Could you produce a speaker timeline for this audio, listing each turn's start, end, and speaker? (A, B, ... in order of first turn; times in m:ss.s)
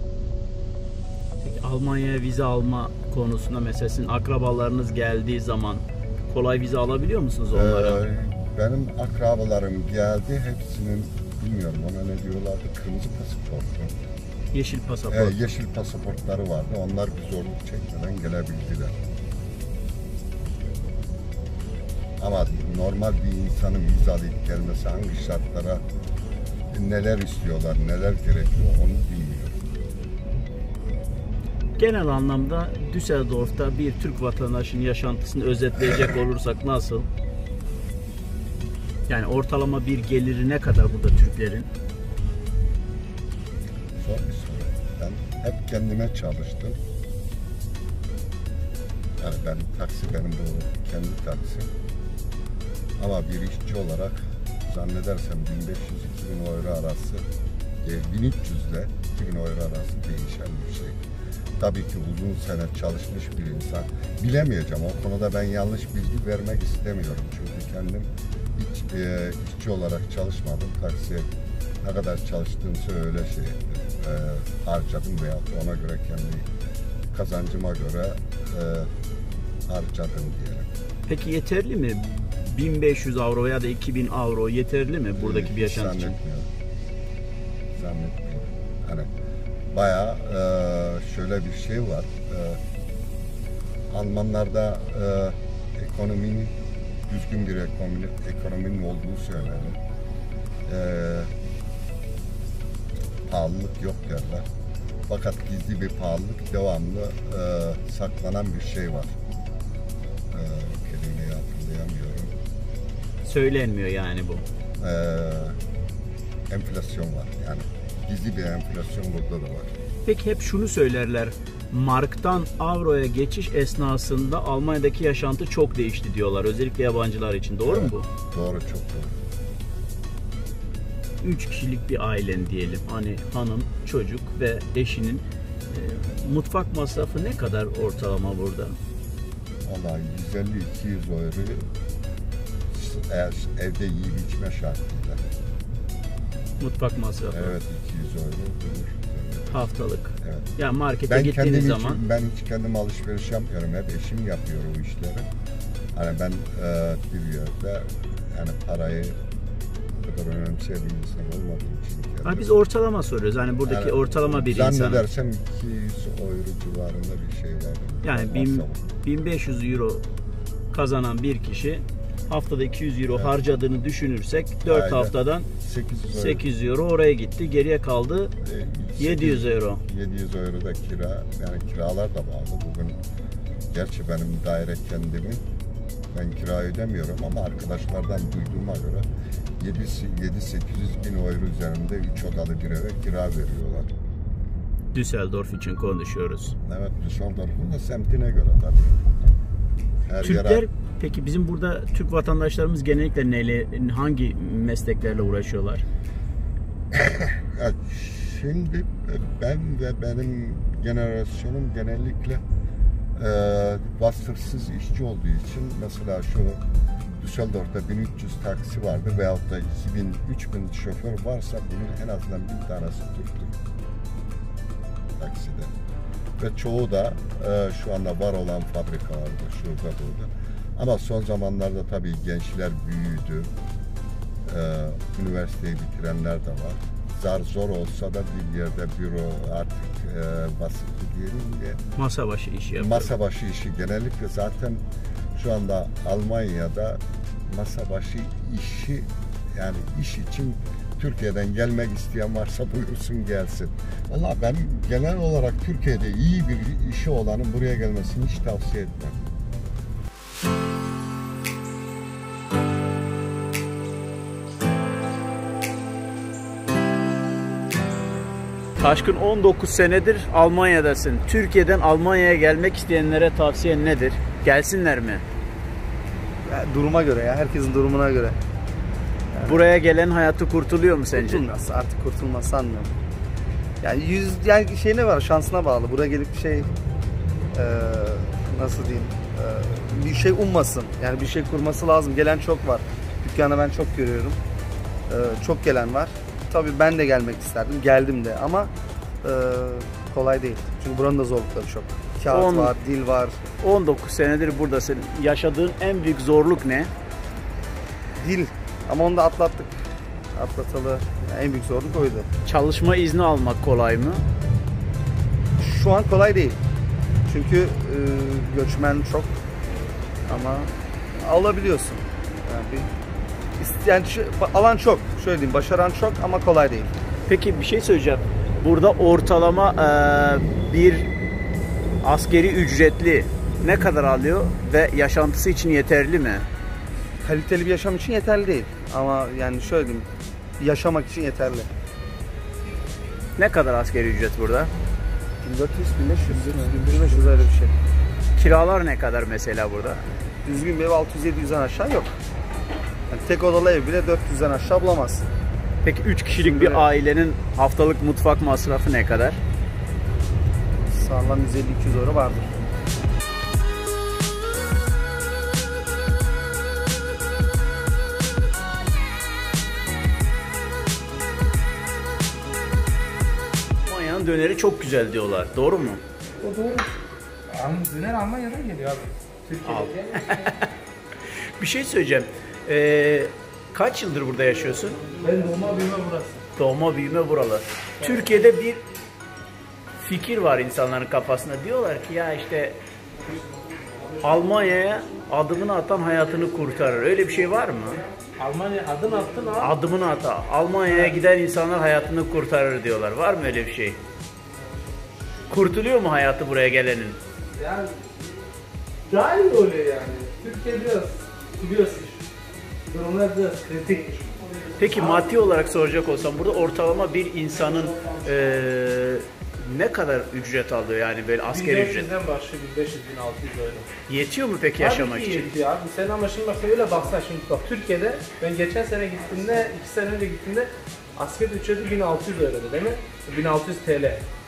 0:01.4-0:08.0 A
0:07.5-0:13.9 B
0:14.5-0:15.5 A
0:15.1-0:19.0 B
0:22.2-0:25.8 B
0:26.7-0:29.6 B
0:31.8-0:37.1 A
0:35.8-0:36.1 B
0:39.1-0:41.7 A
0:44.0-0:46.8 B
0:49.2-0:51.7 B
0:53.0-0:57.2 B
0:57.8-1:01.0 B
1:01.6-1:11.3 B
1:11.8-1:16.4 B
1:17.1-1:18.9 B
1:19.7-1:20.7 B
1:21.1-1:26.2 A
1:25.2-1:26.5 B
1:27.7-1:29.1 B
1:29.7-1:32.6 B
1:33.9-1:36.5 B
1:37.1-1:39.8 B
1:40.7-1:41.3 B
1:43.3-1:44.4 B
1:45.1-1:49.2 B
1:50.3-1:52.4 B
1:53.2-1:54.4 A
1:54.8-1:55.6 B
1:56.5-1:59.7 B
2:00.0-2:08.1 A
2:07.6-2:09.1 B
2:11.2-2:18.8 A
2:19.6-2:21.7 B
2:22.7-2:25.2 B
2:26.6-2:27.6 A
2:27.3-2:30.5 B
2:29.5-2:32.0 A
2:31.1-2:35.2 B
2:35.9-2:39.2 B
2:40.0-2:42.6 B
2:42.2-2:45.0 A
2:43.6-2:48.8 B
2:48.0-2:50.0 A
2:50.7-2:55.5 A
2:53.1-2:53.4 B
2:54.6-2:56.4 B
2:56.1-2:58.3 A
2:58.4-3:03.0 B
2:59.0-2:59.8 A
3:03.7-3:05.4 B
3:06.1-3:09.1 B
3:09.6-3:13.9 B
3:14.9-3:16.5 A
3:16.6-3:19.0 B
3:20.0-3:20.6 B
3:20.2-3:25.8 A
3:26.9-3:32.4 B
3:33.2-3:43.5 B
3:45.2-3:45.7 B
3:46.4-3:53.5 B
3:54.4-4:01.8 B
4:02.0-4:03.1 A
4:02.8-4:04.8 B
4:05.3-4:19.3 B
4:28.8-4:35.2 A
4:36.5-4:38.4 C
4:39.3-4:39.6 C
4:39.4-4:41.4 A
4:41.1-4:42.9 C
4:43.8-4:46.7 C
4:47.5-4:54.4 C
4:55.1-4:58.7 C
4:59.2-5:03.4 C
5:02.3-5:02.7 A
5:03.6-5:06.9 A
5:08.2-5:09.8 C
5:10.3-5:12.3 C
5:12.4-5:14.2 A
5:15.6-5:16.6 C
5:17.2-5:19.4 C
5:20.3-5:22.9 C
5:23.6-5:26.9 C
5:27.3-5:31.1 A
5:32.0-5:36.4 A
5:37.2-5:40.1 C
5:40.6-5:41.7 C
5:43.4-5:44.7 A
5:45.4-5:47.7 C
5:48.3-5:50.0 A
5:50.4-5:52.1 C
5:53.1-5:55.3 C
5:55.8-5:59.4 A
5:56.3-5:56.9 C
6:00.9-6:02.5 C
6:13.8-6:16.0 A
6:16.4-6:16.9 D
6:17.5-6:20.5 D
6:19.6-6:20.6 A
6:21.6-6:25.0 A
6:25.1-6:26.4 D
6:26.6-6:28.8 A
6:30.0-6:32.8 A
6:34.2-6:38.0 A
6:38.4-6:39.8 D
6:39.6-6:44.0 A
6:40.9-6:41.2 D
6:45.5-6:47.2 A
6:47.5-6:48.0 D
6:49.1-6:52.2 D
6:52.9-6:55.2 D
6:54.8-7:02.1 A
6:57.8-6:58.2 D
7:01.5-7:03.9 D
7:04.1-7:05.5 A
7:04.8-7:14.2 D